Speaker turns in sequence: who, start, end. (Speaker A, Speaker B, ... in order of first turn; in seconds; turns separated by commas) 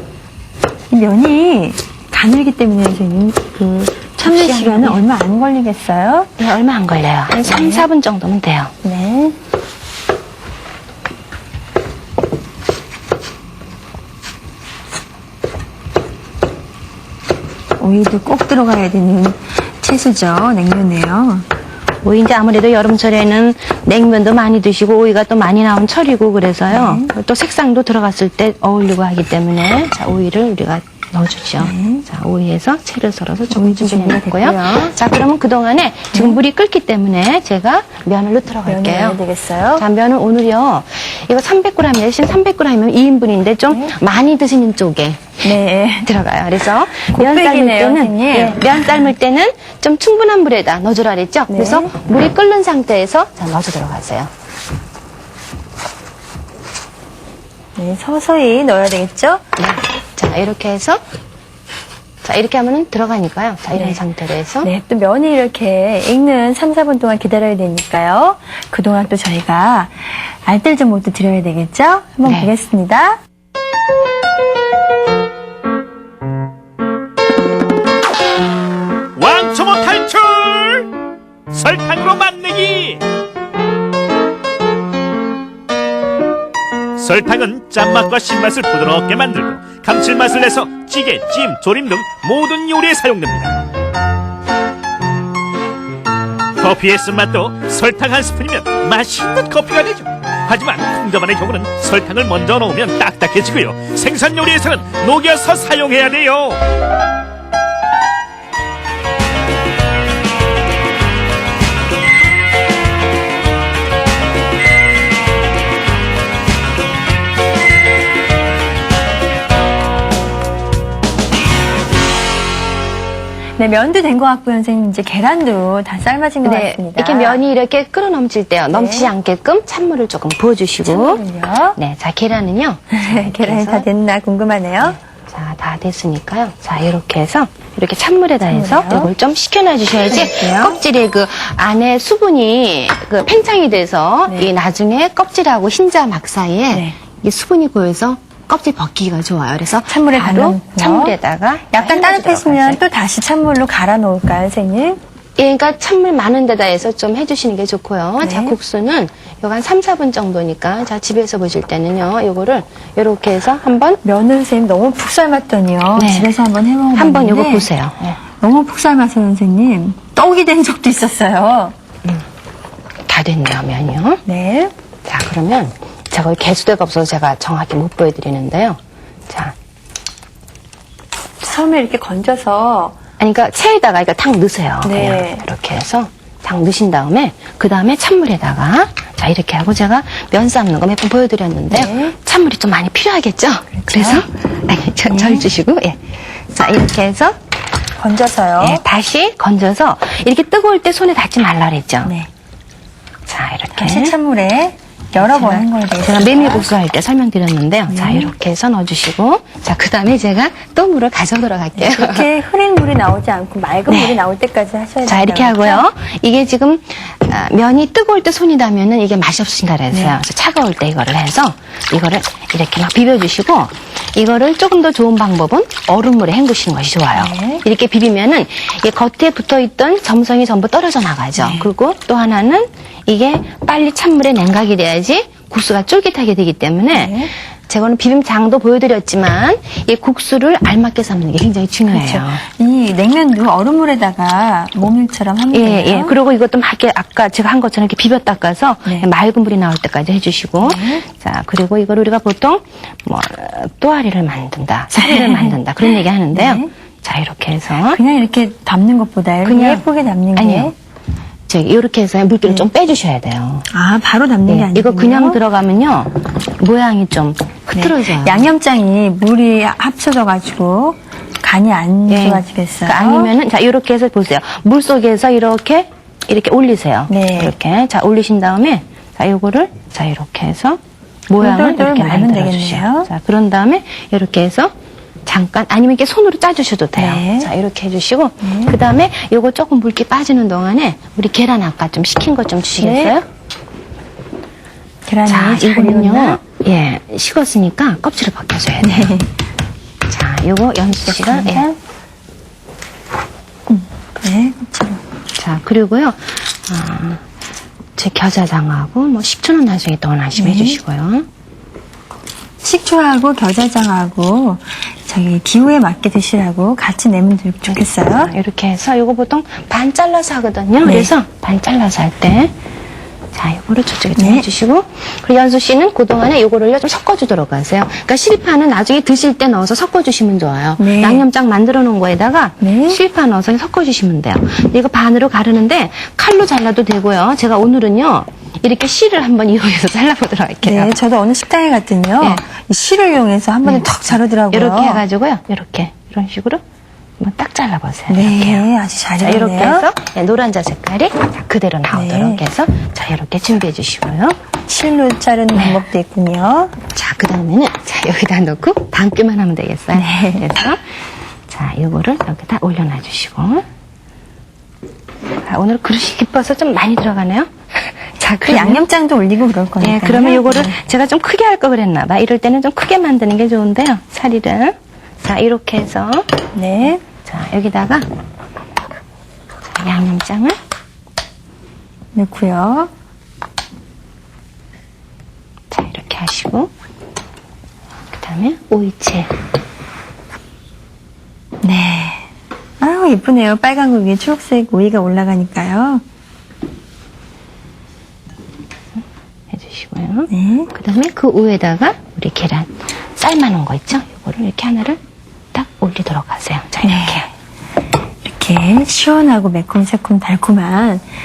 Speaker A: 0.9-6.3, Speaker B: 4.2-5.0, Speaker B: 6.4-8.7, Speaker A: 7.5-7.9, Speaker A: 8.8-9.3, Speaker A: 17.8-21.4, Speaker B: 22.0-39.2, Speaker A: 26.7-27.1, Speaker A: 31.6-32.0, Speaker A: 33.5-34.9, Speaker A: 36.1-36.4, Speaker A: 38.6-39.8, Speaker B: 39.8-45.4, Speaker A: 45.4-46.1, Speaker B: 46.0-54.3, Speaker A: 47.1-48.8, Speaker A: 51.5-51.9, Speaker A: 57.8-59.4, Speaker B: 59.6-61.0, Speaker B: 62.2-64.7, Speaker A: 64.6-73.2, Speaker B: 72.2-72.5, Speaker C: 79.2-80.9, Speaker C: 81.5-83.0, Speaker C: 87.0-93.5, Speaker C: 96.6-106.6, Speaker A: 123.6-127.4, Speaker B: 126.4-131.2, Speaker A: 128.7-129.1, Speaker A: 130.8-131.8, Speaker B: 131.8-133.8, Speaker A: 132.9-135.0, Speaker B: 134.8-152.8, Speaker A: 138.4-139.1, Speaker A: 140.1-140.8, Speaker A: 146.7-146.9, Speaker A: 149.8-151.2, Speaker A: 151.7-155.0, Speaker B: 155.4-164.0, Speaker A: 158.2-158.6, Speaker A: 164.0-167.7, Speaker B: 165.9-166.3, Speaker B: 166.9-168.2, Speaker A: 168.4-171.7, Speaker B: 173.1-174.2, Speaker A: 174.2-174.7, Speaker B: 175.0-179.5, Speaker A: 181.4-183.0, Speaker B: 183.2-197.4, Speaker A: 184.8-185.4, Speaker A: 191.7-192.1, Speaker A: 193.8-194.2, Speaker A: 195.1-195.5, Speaker A: 198.0-198.8, Speaker B: 198.6-202.1, Speaker A: 202.0-202.3, Speaker B: 203.3-204.2, Speaker A: 203.8-206.7, Speaker B: 205.1-212.2, Speaker A: 207.9-208.3, Speaker A: 211.8-215.9, Speaker B: 213.9-214.2, Speaker B: 215.1-242.4, Speaker A: 219.9-220.2, Speaker A: 227.1-227.6, Speaker A: 231.4-231.7, Speaker A: 236.9-237.3, Speaker A: 241.9-246.1, Speaker B: 245.5-258.0, Speaker A: 250.6-251.0, Speaker A: 254.9-256.7, Speaker A: 257.8-260.7, Speaker B: 259.4-260.7, Speaker B: 261.5-263.7, Speaker A: 263.7-265.4, Speaker B: 264.5-268.5, Speaker A: 267.7-273.3, Speaker B: 272.1-284.7, Speaker A: 277.1-277.5, Speaker A: 281.4-283.1, Speaker B: 285.2-293.2, Speaker A: 286.9-287.5, Speaker A: 288.4-288.8, Speaker A: 292.8-293.1, Speaker A: 295.1-296.4, Speaker B: 295.2-299.2, Speaker A: 298.8-299.3, Speaker B: 300.1-301.8, Speaker A: 301.1-301.7, Speaker A: 303.7-305.0, Speaker B: 305.4-307.2, Speaker B: 307.9-311.2, Speaker A: 310.4-310.8, Speaker A: 312.6-318.3, Speaker B: 317.7-322.5, Speaker A: 320.8-321.1, Speaker B: 323.3-340.9, Speaker A: 324.2-324.5, Speaker A: 330.8-331.2, Speaker A: 332.6-333.0, Speaker A: 340.6-345.0, Speaker B: 344.5-346.6, Speaker B: 347.2-348.6, Speaker A: 348.1-349.9, Speaker B: 349.2-354.4, Speaker A: 351.9-352.4, Speaker A: 354.7-356.8, Speaker B: 356.9-360.8, Speaker A: 359.9-360.5, Speaker B: 361.5-363.6, Speaker B: 365.4-368.8, Speaker A: 368.4-370.8, Speaker B: 369.8-376.3, Speaker A: 376.5-377.0, Speaker B: 377.2-378.0, Speaker B: 379.8-380.6, Speaker A: 382.1-382.9, Speaker B: 385.7-386.7, Speaker B: 388.1-389.3, Speaker A: 391.6-392.3, Speaker A: 392.8-396.0, Speaker B: 399.5-405.0, Speaker A: 400.3-400.7, Speaker B: 405.5-407.3, Speaker A: 406.8-407.3, Speaker A: 408.2-411.0